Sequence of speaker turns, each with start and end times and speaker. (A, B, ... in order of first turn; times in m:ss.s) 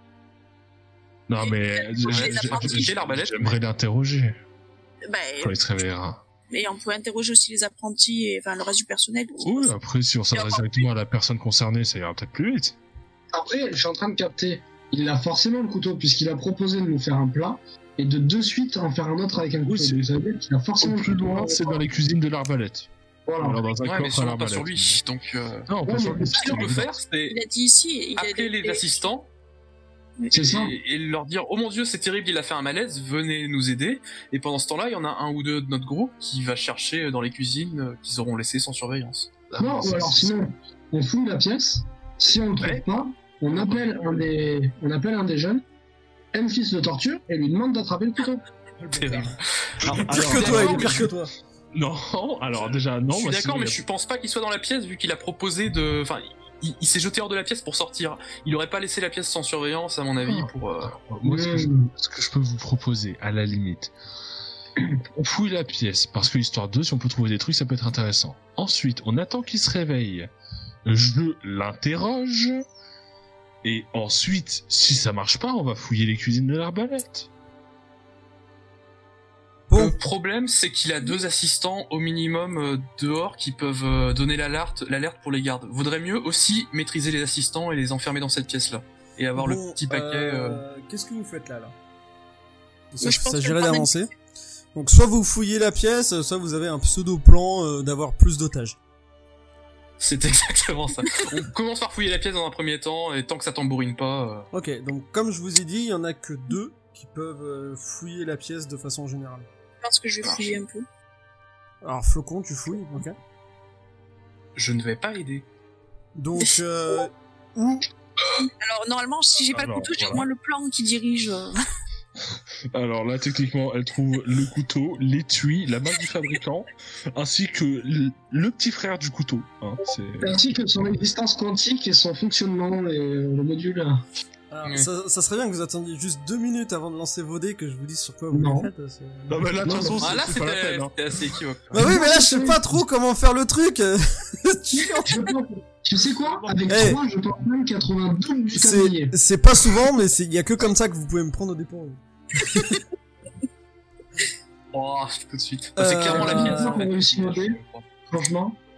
0:01.3-0:04.4 A
0:01.4-0:03.0 B
0:02.1-0:03.6 C
0:05.1-0:05.6 B
0:05.4-0:06.2 A
0:06.5-0:09.7 B
0:09.4-0:12.8 A
0:10.3-0:10.9 B
0:13.3-0:21.8 D
0:19.6-0:20.0 A
0:20.8-0:22.9 A
0:23.3-0:23.6 D
0:23.4-0:25.0 A
0:23.8-0:25.7 C
0:25.7-0:26.9 A
0:25.8-0:26.6 D
0:26.3-0:27.4 C
0:27.3-0:29.0 B
0:28.2-0:29.3 C
0:30.3-0:30.7 D
0:30.3-0:39.3 C
0:39.5-0:40.3 A
0:39.6-0:45.6 D
0:46.3-0:48.4 D
0:48.8-0:49.3 E
0:48.9-0:51.1 C
0:49.8-0:51.1 A
0:49.9-0:51.3 E
0:51.7-0:53.8 A
0:52.5-1:00.9 C
1:00.2-1:03.9 A
1:01.2-1:01.9 D
1:05.1-1:10.3 A
1:10.8-1:12.6 A
1:13.6-1:17.3 A
1:19.7-1:20.0 E
1:19.7-1:30.6 C
1:29.4-1:31.7 E
1:32.9-1:34.1 E
1:33.0-1:33.9 B
1:34.7-1:38.8 E
1:40.0-1:44.5 C
1:44.5-1:49.5 E
1:49.8-1:50.8 B
1:50.2-1:50.5 C
1:51.8-1:53.1 E
1:54.6-1:55.4 C
1:56.2-1:57.9 E
1:58.4-2:01.6 B
1:59.5-2:00.3 A
2:02.7-2:10.3 A
2:10.2-2:14.0 D
2:14.5-2:19.6 E
2:18.3-2:18.7 D
2:19.3-2:20.9 A
2:19.6-2:20.0 D
2:20.0-2:21.8 C
2:21.7-2:25.3 E
2:21.7-2:22.7 D
2:25.0-2:29.2 D
2:26.7-2:27.0 E
2:28.5-2:32.8 E
2:34.7-2:37.8 C
2:35.8-2:36.8 E
2:36.1-2:37.6 D
2:38.1-2:38.6 D